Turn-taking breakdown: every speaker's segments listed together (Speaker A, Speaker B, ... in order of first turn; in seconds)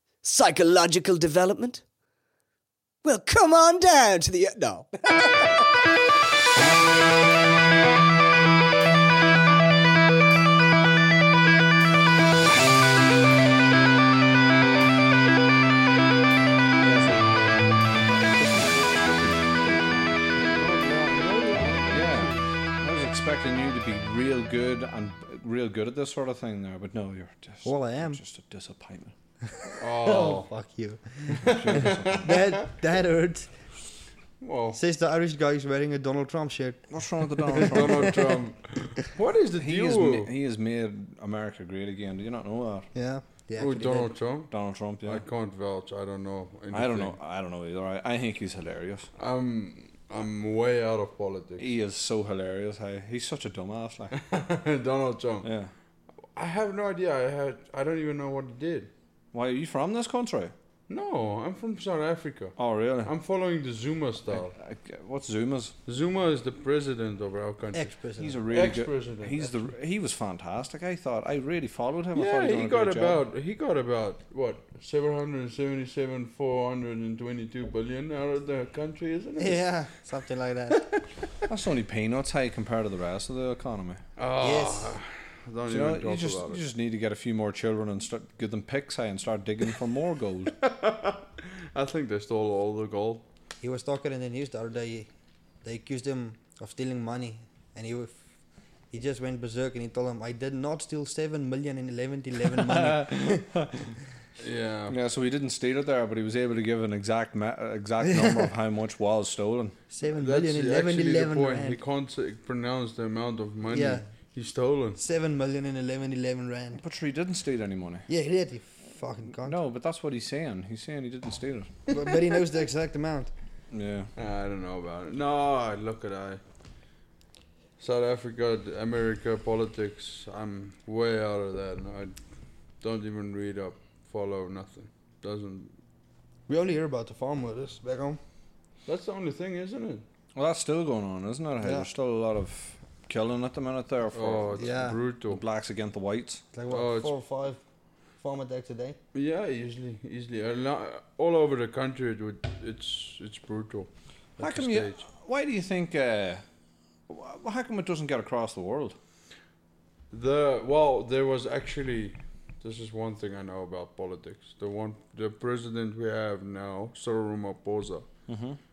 Speaker A: 0.2-1.8, 3.0-5.7
Speaker B: 16.8-17.4, 18.1-20.3, 21.9-29.1, 31.6-32.3, 36.9-38.4, 39.6-42.9, 44.5-45.2, 46.7-49.1, 51.6-54.2, 55.4-55.7, 59.3-60.5, 62.6-63.1, 64.3-65.8, 68.2-73.2, 81.5-84.0, 85.7-90.5, 102.7-103.7, 104.9-109.8, 116.8-118.1, 119.4-121.8, 123.7-124.1, 140.3-146.4, 154.4-156.4, 157.1-159.0, 168.3-168.6
Speaker C: 20.4-22.5, 29.8-30.5, 31.3-32.4, 34.4-34.8, 37.5-40.3, 43.6-44.5, 45.0-47.2, 49.2-51.7, 54.1-55.5, 56.3-58.9, 60.9-64.5, 65.9-67.9, 68.5-69.5, 72.2-79.6, 84.2-86.6, 90.6-93.3, 104.4-105.0, 110.2-115.0, 124.2-126.4, 127.8-132.2, 132.8-135.8, 138.9-140.1, 144.1-145.4, 146.7-147.1, 149.1-155.1, 160.1-168.1
Speaker D: 27.6-28.2, 29.5-31.5, 32.1-33.5, 34.7-36.9, 42.9-44.1, 67.7-68.5, 79.4-81.5, 84.4-85.0, 93.6-95.1, 95.6-98.2, 98.9-103.5, 108.0-108.5, 109.9-111.8, 113.7-114.0, 115.0-116.8, 118.1-119.6, 121.9-123.3, 136.5-138.2, 141.6-141.9, 144.6-145.0, 146.5-147.6, 148.2-149.0